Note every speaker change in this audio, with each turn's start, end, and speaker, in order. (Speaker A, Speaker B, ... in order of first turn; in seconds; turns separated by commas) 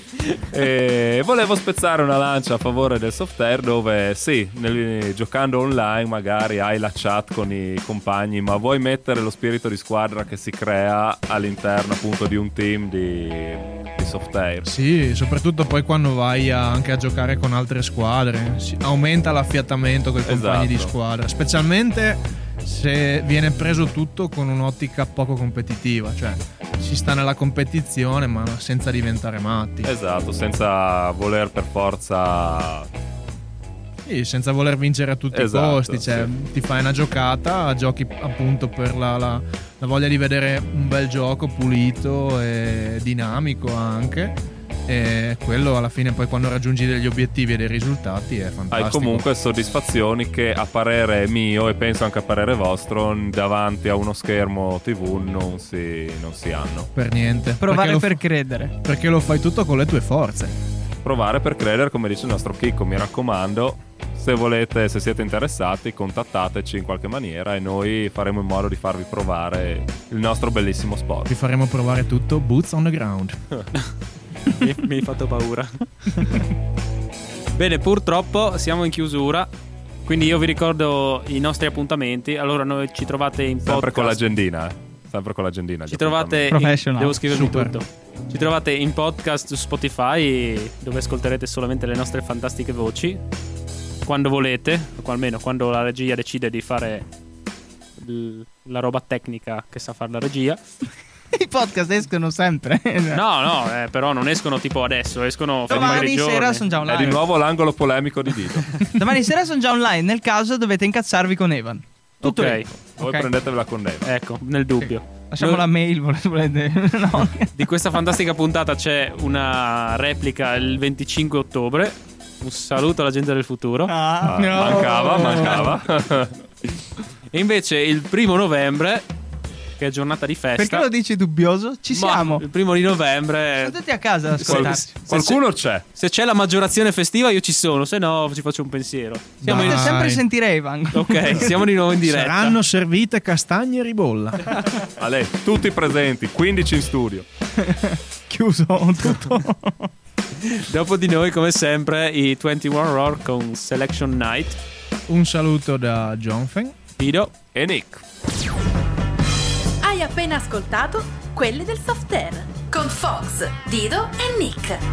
Speaker A: 0.3-14.7, Speaker B: 14.7-29.9, Speaker A: 20.2-20.9, Speaker A: 29.8-32.9, Speaker B: 34.0-49.3, Speaker A: 35.3-36.3, Speaker A: 48.7-56.9, Speaker B: 56.9-58.2, Speaker C: 57.6-58.7, Speaker B: 58.8-60.5, Speaker A: 61.0-71.3, Speaker B: 71.3-73.4, Speaker D: 74.5-76.3, Speaker D: 77.5-79.5, Speaker D: 80.0-84.2, Speaker A: 83.6-86.5, Speaker D: 85.9-93.2, Speaker C: 86.5-87.2, Speaker B: 87.2-87.7, Speaker D: 94.0-97.0, Speaker D: 98.0-100.6, Speaker C: 101.3-103.2, Speaker D: 103.1-106.7, Speaker C: 105.7-107.2, Speaker A: 105.7-106.0, Speaker A: 106.8-108.8, Speaker C: 108.9-113.3, Speaker D: 112.2-112.7, Speaker A: 112.4-114.1, Speaker D: 114.0-115.7, Speaker C: 114.8-117.5, Speaker D: 117.5-123.9, Speaker C: 123.9-125.8, Speaker A: 124.2-126.3, Speaker D: 127.3-129.1, Speaker D: 129.8-130.9, Speaker C: 130.6-132.4, Speaker D: 131.9-133.8, Speaker C: 133.6-134.9, Speaker D: 134.3-139.8, Speaker A: 134.4-135.8, Speaker B: 139.4-140.2, Speaker C: 139.4-141.5, Speaker D: 140.9-142.6, Speaker B: 142.0-144.6, Speaker A: 145.0-147.2, Speaker C: 147.6-149.9, Speaker D: 150.4-154.6, Speaker B: 155.1-156.8, Speaker D: 157.0-157.3, Speaker A: 157.5-158.0, Speaker E: 159.8-164.8